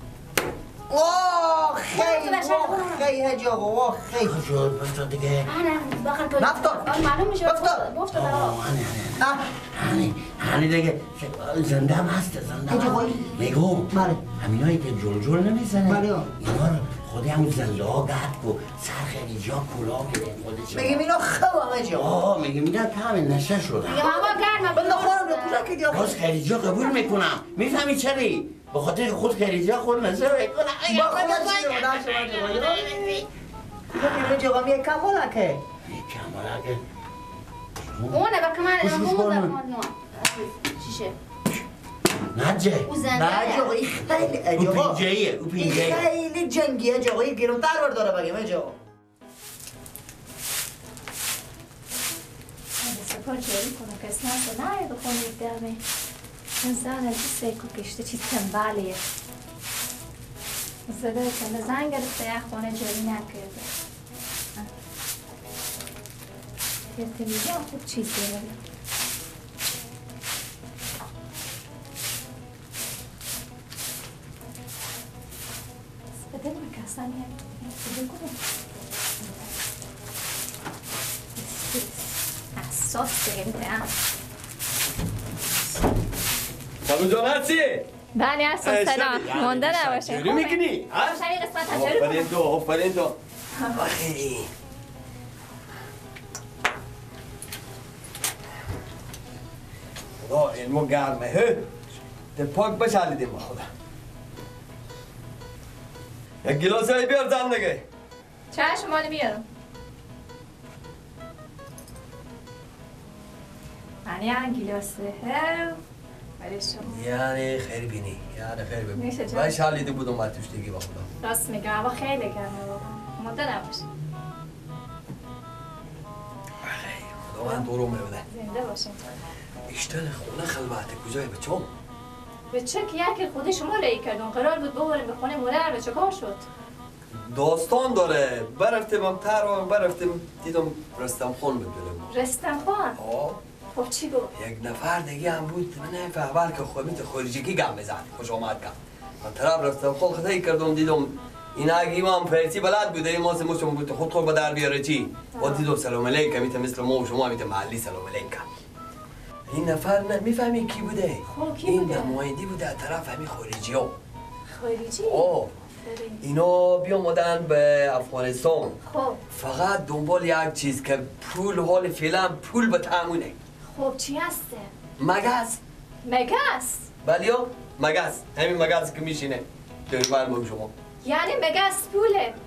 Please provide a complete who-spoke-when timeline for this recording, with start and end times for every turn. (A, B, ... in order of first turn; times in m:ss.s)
0:00.9-0:04.4 A
0:01.9-0:03.1 B
0:04.1-0:05.5 C
0:05.4-0:08.6 B
0:06.4-0:06.9 A
0:07.4-0:07.9 A
0:08.1-0:21.0 C
0:09.2-0:09.5 A
0:12.7-0:14.2 A
0:15.8-0:16.4 A
0:20.7-0:22.1 A
0:21.9-0:24.9 C
0:23.8-0:25.7 B
0:24.0-0:26.2 A
0:25.9-0:33.3 C
0:30.8-0:33.1 A
0:33.9-0:34.4 C
0:33.9-0:35.6 A
0:35.8-0:36.8 C
0:37.8-0:38.2 C
0:38.1-0:41.1 B
0:38.8-0:39.5 C
0:42.3-0:43.0 C
0:42.8-0:43.8 B
0:43.1-0:45.0 A
0:43.9-0:46.1 C
0:45.6-0:48.8 A
0:52.8-0:55.8 D
0:56.6-0:59.0 D
1:00.9-1:03.7 D
1:06.9-1:08.6 D
1:16.3-1:18.4 D
1:19.2-1:19.5 D
1:21.4-1:22.0 D
1:22.5-1:23.9 D
1:26.8-1:27.9 E
1:28.1-1:32.3 D
1:28.6-1:33.2 E
1:33.8-1:34.5 E
1:40.2-1:41.6 E
1:42.3-1:43.7 E
1:46.4-1:47.8 E
1:48.5-1:49.4 D
1:54.0-1:55.8 D
1:56.4-1:57.0 D
1:56.8-2:01.1 E
1:59.0-1:59.7 D
2:01.2-2:03.8 D
2:06.6-2:08.2 E
2:08.3-2:09.0 D
2:09.7-2:11.7 E
2:12.5-2:16.4 D
2:17.2-2:22.1 E
2:22.1-2:23.0 D
2:23.0-2:23.4 E
2:23.7-2:24.3 D
2:24.3-2:38.4 E
2:35.3-2:35.7 D
2:39.5-2:43.9 E
2:41.2-2:42.2 D
2:44.5-2:46.2 D
2:45.0-2:45.5 E
2:46.2-2:48.8 E
2:48.8-2:49.2 D
2:49.3-2:53.3 E
2:53.7-2:54.7 D
2:55.0-2:55.6 E
2:56.0-2:56.8 D
2:57.0-3:00.7 E
3:01.0-3:02.4 D